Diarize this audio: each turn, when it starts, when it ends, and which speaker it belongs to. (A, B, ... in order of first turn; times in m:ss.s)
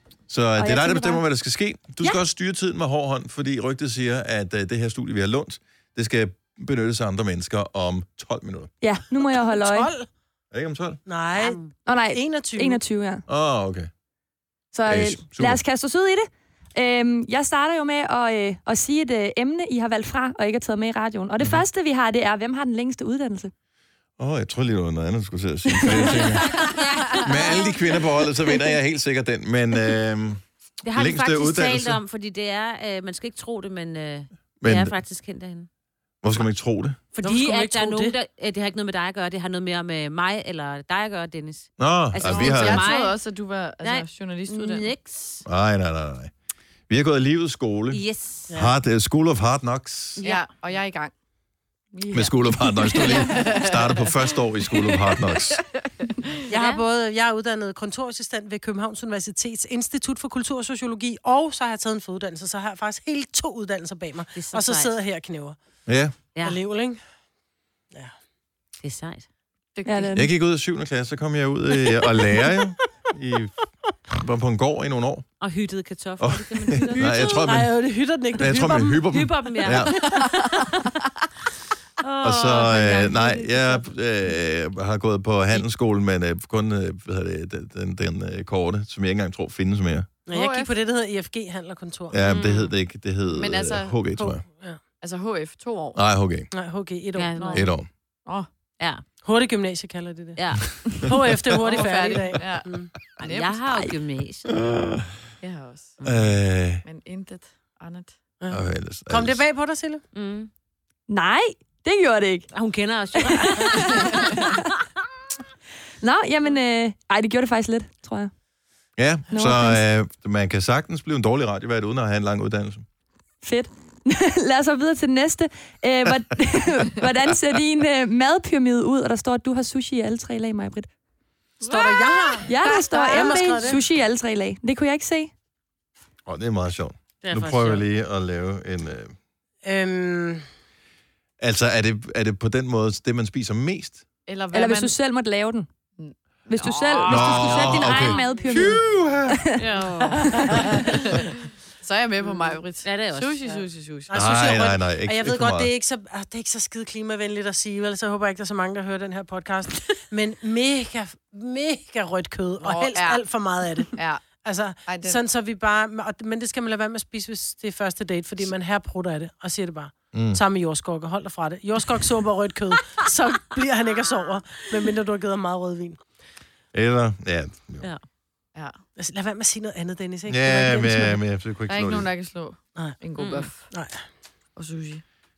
0:00.3-0:08.7 A
0:00.6-0:01.2 B
0:08.8-0:09.9 B
0:09.2-0:10.1 C
0:10.5-0:11.0 A
0:11.0-0:11.6 C
0:11.3-0:11.7 D
0:11.8-0:13.2 B
0:12.1-0:12.8 C
0:13.3-0:13.9 A
0:14.7-0:23.5 B
0:14.8-0:15.6 A
0:24.2-0:26.6 A
0:25.9-0:26.1 B
0:26.5-0:27.6 D
0:27.1-0:30.4 A
0:30.8-0:35.7 D
0:30.9-0:32.0 A
0:34.6-0:35.0 A
0:36.2-0:37.0 A
0:37.1-0:43.2 D
0:37.2-0:38.1 C
0:41.8-0:42.8 A
0:42.2-0:44.9 E
0:43.8-0:45.4 D
0:45.4-0:46.3 A
0:46.9-0:50.2 A
0:47.9-0:48.6 D
0:50.2-0:50.4 D
0:50.2-0:51.1 E
0:51.9-0:54.1 E
0:52.1-0:55.6 A
0:54.7-0:56.1 E
0:56.5-1:05.6 C
0:56.5-0:56.8 D
1:04.3-1:05.0 D
1:05.8-1:06.1 A
1:06.4-1:07.0 C
1:08.8-1:09.2 D
1:09.7-1:10.1 E
1:09.8-1:10.3 B
1:10.1-1:13.5 A
1:12.1-1:12.6 C
1:14.1-1:15.3 A
1:15.4-1:17.3 D
1:16.2-1:17.7 A
1:17.0-1:19.1 C
1:18.4-1:19.9 A
1:19.1-1:20.7 D
1:19.9-1:20.2 C
1:22.0-1:23.9 D
1:22.2-1:30.1 A
1:30.2-1:32.2 C
1:30.3-1:30.7 E
1:32.1-1:34.4 A
1:32.2-1:32.7 D
1:33.3-1:34.0 E
1:34.2-1:34.8 C
1:35.0-1:36.0 E
1:35.9-1:36.5 A
1:36.5-1:37.6 C
1:37.1-1:37.7 D
1:37.4-1:37.7 E
1:37.5-1:37.9 A
1:38.8-1:39.1 D
1:39.2-1:42.9 C
1:40.4-1:40.8 D
1:41.6-1:43.6 E
1:43.1-1:45.0 D
1:44.7-1:45.0 A
1:45.4-1:46.0 E
1:46.0-1:46.8 A
1:46.8-1:48.1 E
1:48.4-1:50.0 C
1:48.5-1:49.4 A
1:50.1-1:50.5 D
1:51.1-1:52.5 B
1:52.5-1:54.6 D
1:53.1-1:54.6 B
1:56.0-1:58.3 B
1:59.0-2:02.8 A
1:59.3-1:59.8 B
2:03.4-2:10.9 B
2:11.6-2:13.8 E
2:11.7-2:13.8 C
2:12.4-2:15.3 B
2:16.2-2:19.1 A
2:17.2-2:17.8 C
2:19.6-2:20.4 C
2:21.4-2:24.0 A
2:24.2-2:24.9 E
2:24.5-2:25.7 B
2:26.0-2:28.4 E
2:26.5-2:30.8 B
2:27.0-2:28.4 D
2:27.1-2:29.5 A
2:29.6-2:30.3 D
2:30.3-2:34.3 E
2:32.7-2:33.4 D
2:33.5-2:56.0 C
2:34.1-2:35.7 A
2:42.6-2:43.2 E
2:43.9-2:44.2 E
2:44.8-2:45.2 E
2:50.1-2:50.4 A
2:56.7-2:57.9 A
2:59.0-3:01.2 C
3:00.3-3:02.1 A
3:01.7-3:03.7 E
3:02.8-3:03.0 C
3:03.1-3:03.6 D
3:03.7-3:04.0 C
3:04.6-3:05.0 E